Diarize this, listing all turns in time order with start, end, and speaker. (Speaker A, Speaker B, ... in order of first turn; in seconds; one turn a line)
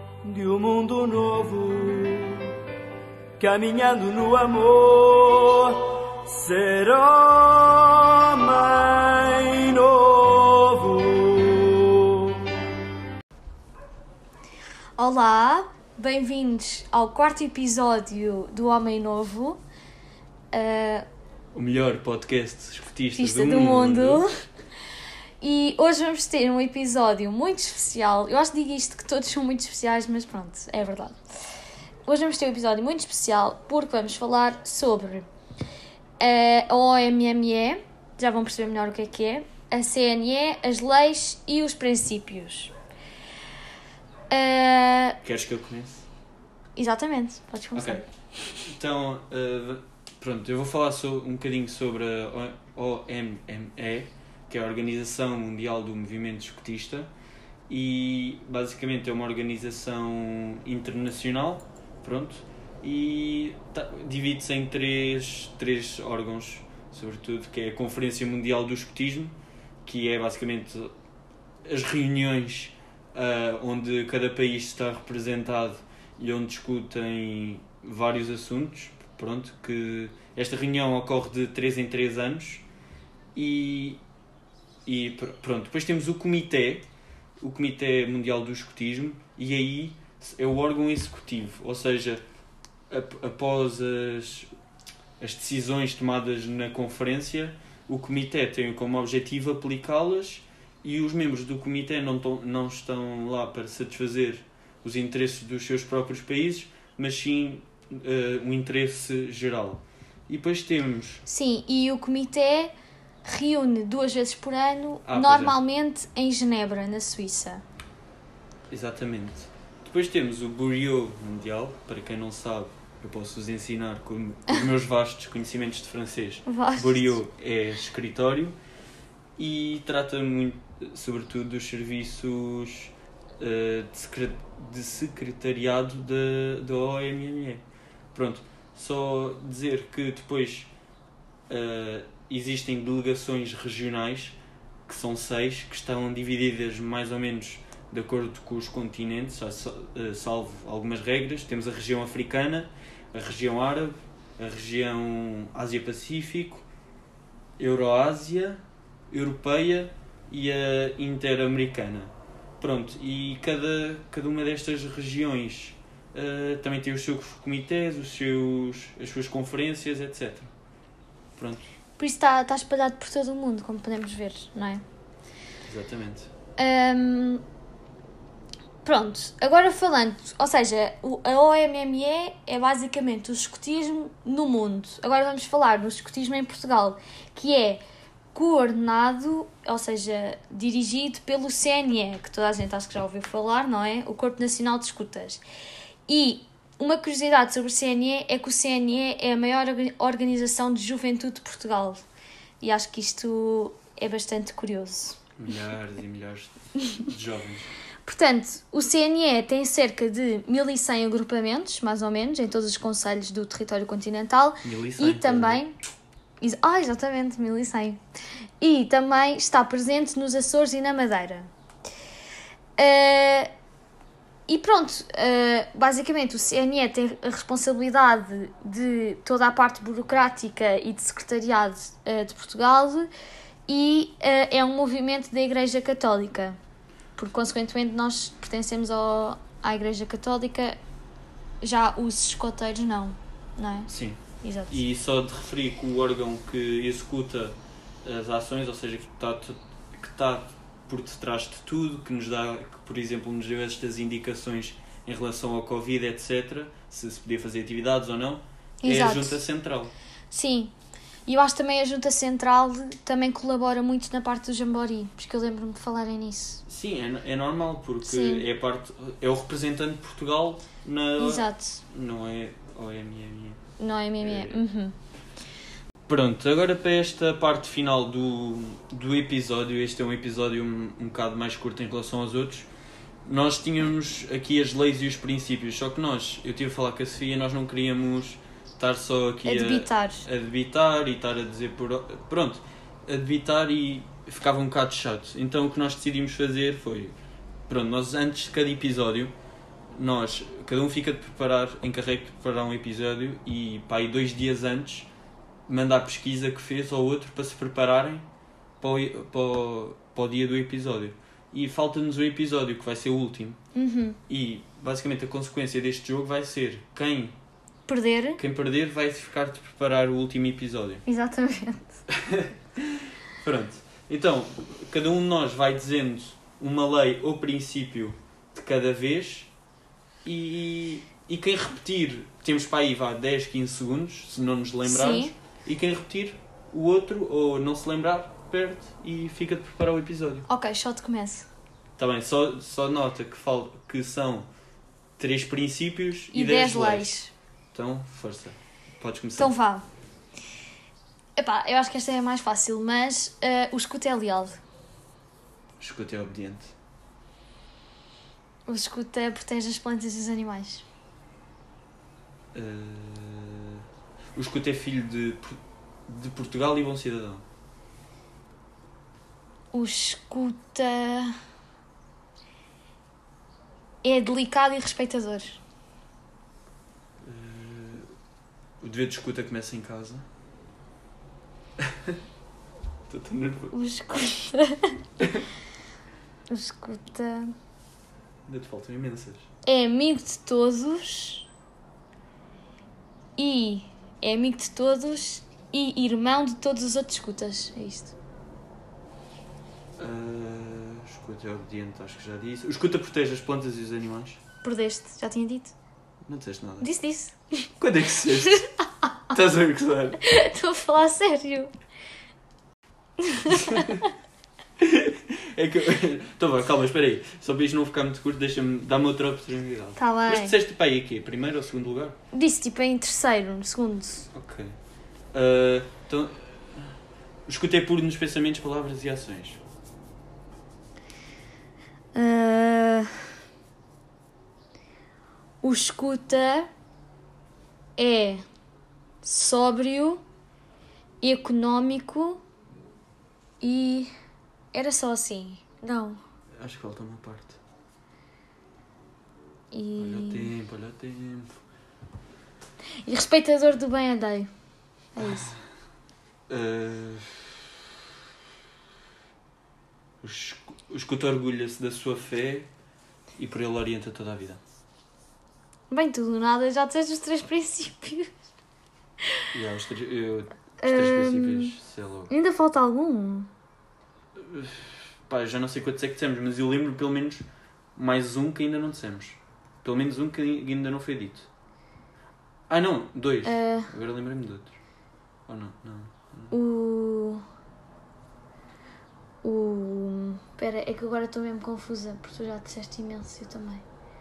Speaker A: 0.2-2.5
Speaker A: 3.4-12.4
Speaker B: 15.0-19.6
Speaker B: 20.5-21.1
Speaker C: 21.5-24.2
Speaker B: 23.2-24.3
Speaker B: 25.4-31.2
Speaker B: 32.1-35.3
Speaker B: 36.2-42.7
Speaker B: 44.3-45.2
Speaker C: 45.2-46.1
Speaker B: 46.8-48.0
Speaker C: 47.8-48.0
Speaker C: 48.6-57.1
Speaker C: 57.7-70.9
Speaker C: 71.7-82.7
Speaker C: 83.3-84.0
Speaker C: 84.9-86.9
Speaker C: 87.4-92.2
Speaker C: 92.9-94.5
Speaker C: 95.2-111.2
Speaker B: 111.3-112.7
Speaker B: 113.2-117.6
Speaker C: 115.1-115.6
Speaker C: 118.7-128.6
Speaker B: 126.5-127.1
Speaker C: 129.4-137.6
Speaker C: 138.1-140.7
Speaker C: 141.5-156.7
Speaker C: 157.6-170.5
Speaker C: 171.4-171.6
Speaker B: 172.0-174.8
Speaker C: 175.7-176.3
Speaker B: 176.6-177.4
Speaker B: 178.8-187.8
Speaker B: 188.3-195.4
Speaker B: 196.1-202.0
Speaker B: 202.6-205.2
Speaker C: 205.4-207.7
Speaker B: 208.0-215.8
Speaker C: 214.6-215.6
Speaker B: 216.4-218.0
Speaker B: 218.6-221.5
Speaker B: 222.8-223.5
Speaker B: 224.5-233.1
Speaker B: 233.7-236.6
Speaker B: 237.2-240.8
Speaker B: 241.6-243.9
Speaker C: 243.9-259.9
Speaker B: 244.4-244.8
Speaker B: 258.8-259.4
Speaker B: 260.3-260.7
Speaker B: 261.3-266.6
Speaker C: 266.7-273.6
Speaker B: 268.0-268.5
Speaker B: 271.2-271.8
Speaker B: 273.8-274.9
Speaker C: 274.2-274.6
Speaker C: 276.1-282.7
Speaker C: 283.3-297.1
Speaker B: 289.4-290.3
Speaker C: 297.7-299.3
Speaker C: 299.9-305.1
Speaker C: 305.7-308.3
Speaker C: 308.8-313.6
Speaker B: 313.8-314.2
Speaker C: 314.3-317.4
Speaker B: 317.9-318.4
Speaker C: 318.4-321.1
Speaker B: 321.1-322.0
Speaker C: 322.1-329.5
Speaker C: 330.2-340.5
Speaker B: 334.8-335.3
Speaker B: 340.5-341.5
Speaker C: 342.0-344.5
Speaker C: 345.2-347.2
Speaker B: 346.3-347.3
Speaker C: 347.7-349.5
Speaker B: 349.4-349.9
Speaker B: 351.4-354.6
Speaker C: 355.8-356.7
Speaker B: 358.7-360.8
Speaker C: 362.5-363.8
Speaker C: 364.4-367.4
Speaker B: 369.7-371.4
Speaker B: 374.0-375.6
Speaker C: 377.2-378.1
Speaker C: 378.8-380.2
Speaker C: 381.8-382.2
Speaker C: 383.1-383.7
Speaker B: 383.7-384.9
Speaker B: 386.5-387.5
Speaker C: 388.5-389.5
Speaker B: 389.6-391.5
Speaker B: 393.4-398.1
Speaker C: 400.0-404.4
Speaker B: 404.6-405.8
Speaker C: 406.3-406.9
Speaker B: 406.8-407.7
Speaker C: 407.8-408.7
Speaker B: 408.3-408.7
Speaker C: 409.3-410.2
Speaker B: 410.2-411.7
Speaker B: 413.2-414.0
Speaker C: 414.8-422.1
Speaker B: 420.0-420.6
Speaker B: 422.3-424.3
Speaker C: 424.3-424.8
Speaker C: 425.3-429.6
Speaker B: 432.1-433.3
Speaker B: 435.6-436.7
Speaker B: 438.0-438.4
Speaker B: 439.2-440.2
Speaker B: 441.2-442.4
Speaker B: 443.6-444.1
Speaker B: 444.7-446.2
Speaker C: 446.6-447.6
Speaker B: 449.7-450.5
Speaker C: 450.0-451.5
Speaker B: 453.0-454.5
Speaker B: 455.1-455.5
Speaker C: 455.2-455.6
Speaker C: 456.5-457.7
Speaker C: 460.2-462.7
Speaker C: 463.4-464.6
Speaker B: 465.9-468.3
Speaker C: 469.5-472.3
Speaker B: 470.8-471.7
Speaker B: 472.3-473.5
Speaker C: 474.4-477.4
Speaker C: 478.0-481.5
Speaker C: 482.7-484.8
Speaker B: 483.4-483.9
Speaker C: 485.5-486.6
Speaker B: 486.5-487.4
Speaker B: 489.4-493.8